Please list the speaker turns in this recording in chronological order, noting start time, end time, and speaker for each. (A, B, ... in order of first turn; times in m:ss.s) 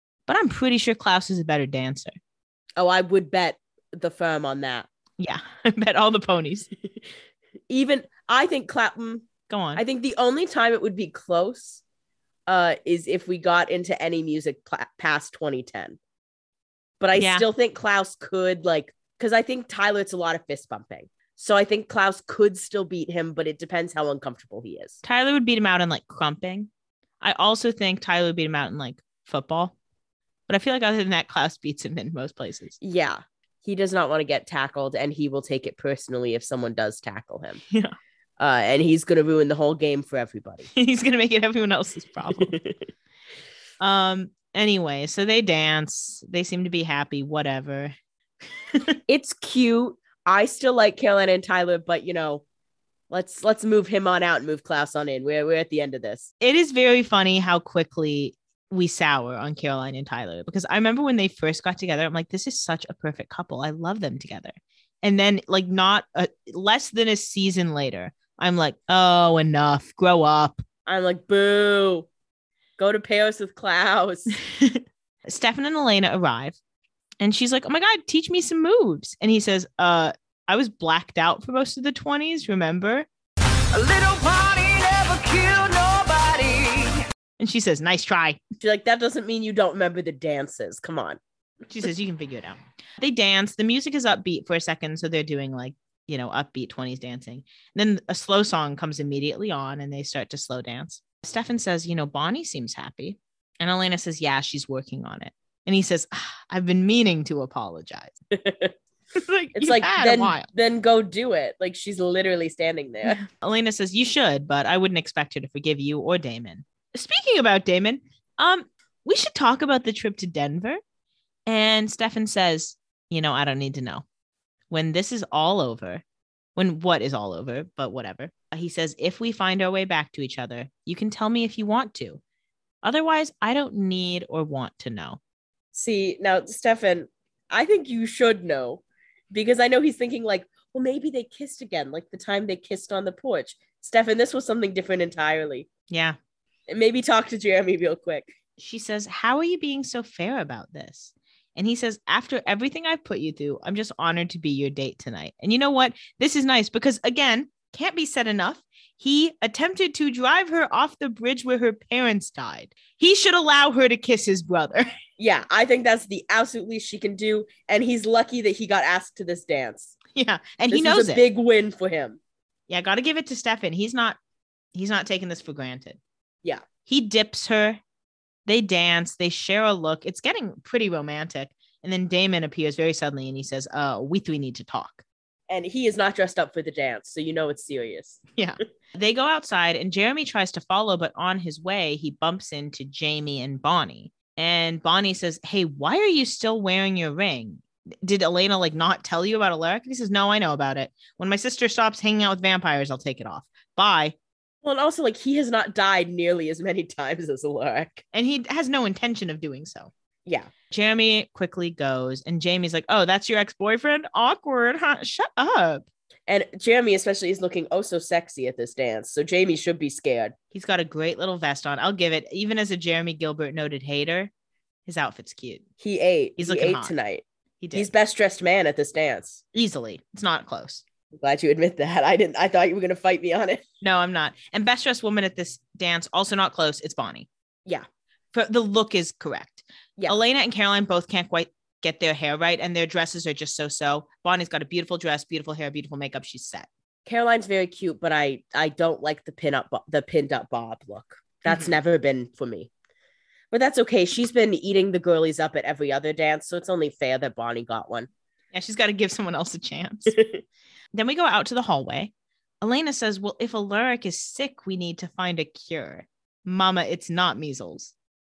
0:00.3-0:02.1 A
0:02.8-0:04.9 B
0:05.2-0:06.7 A
0:07.7-0:11.8 B
0:09.5-0:09.8 A
0:12.5-0:16.0 B
0:17.0-0:25.0 B
0:17.2-0:17.4 A
0:25.0-0:26.7 A
0:27.2-0:29.7 A
0:30.5-0:32.8 A
0:32.8-0:37.6 B
0:37.7-0:38.0 A
0:38.4-0:40.7 B
0:40.7-0:42.5 A
0:42.4-0:42.7 B
0:43.8-0:47.9 A
0:49.1-0:52.4 B
0:53.1-0:56.3 B
0:56.4-1:10.6 A
1:10.8-1:12.1 B
1:12.8-1:14.4 B
1:14.4-1:16.6 A
1:17.2-1:23.1 A
1:23.7-1:27.0 C
1:27.4-1:28.4 A
1:28.6-1:31.2 B
1:31.6-1:48.1 A
1:48.3-1:48.7 B
1:49.2-1:50.5 A
1:49.5-1:53.2 B
1:53.0-2:00.8 A
2:01.5-2:04.0 A
2:04.7-2:06.0 A
2:06.6-2:12.2 A
2:12.8-2:15.2 A
2:15.7-2:25.7 B
2:25.9-2:26.2 A
2:26.7-2:28.3 B
2:28.6-2:44.9 A
2:45.2-2:50.0 B
2:50.1-2:51.2 A
2:50.7-2:52.2 B
2:52.7-2:54.2 A
2:54.7-2:56.0 A
2:56.9-2:57.8 A
2:58.4-3:05.0 A
3:05.5-3:08.2 B
3:08.4-3:24.1 A
3:24.6-3:28.0 B
3:28.1-3:29.9 A
3:30.7-3:35.8 A
3:36.3-3:40.3 B
3:40.5-3:44.3 A
3:44.8-3:45.6 A
3:45.8-3:49.4 B
3:46.4-3:46.9 A
3:47.6-3:47.9 A
3:49.5-3:50.8 A
3:51.1-3:53.6 B
3:53.8-3:57.3 A
3:58.3-4:06.7 A
4:07.0-4:12.7 B
4:11.4-4:11.7 A
4:13.5-4:18.1 B
4:18.5-4:20.2 A
4:20.1-4:20.4 B
4:20.9-4:27.9 A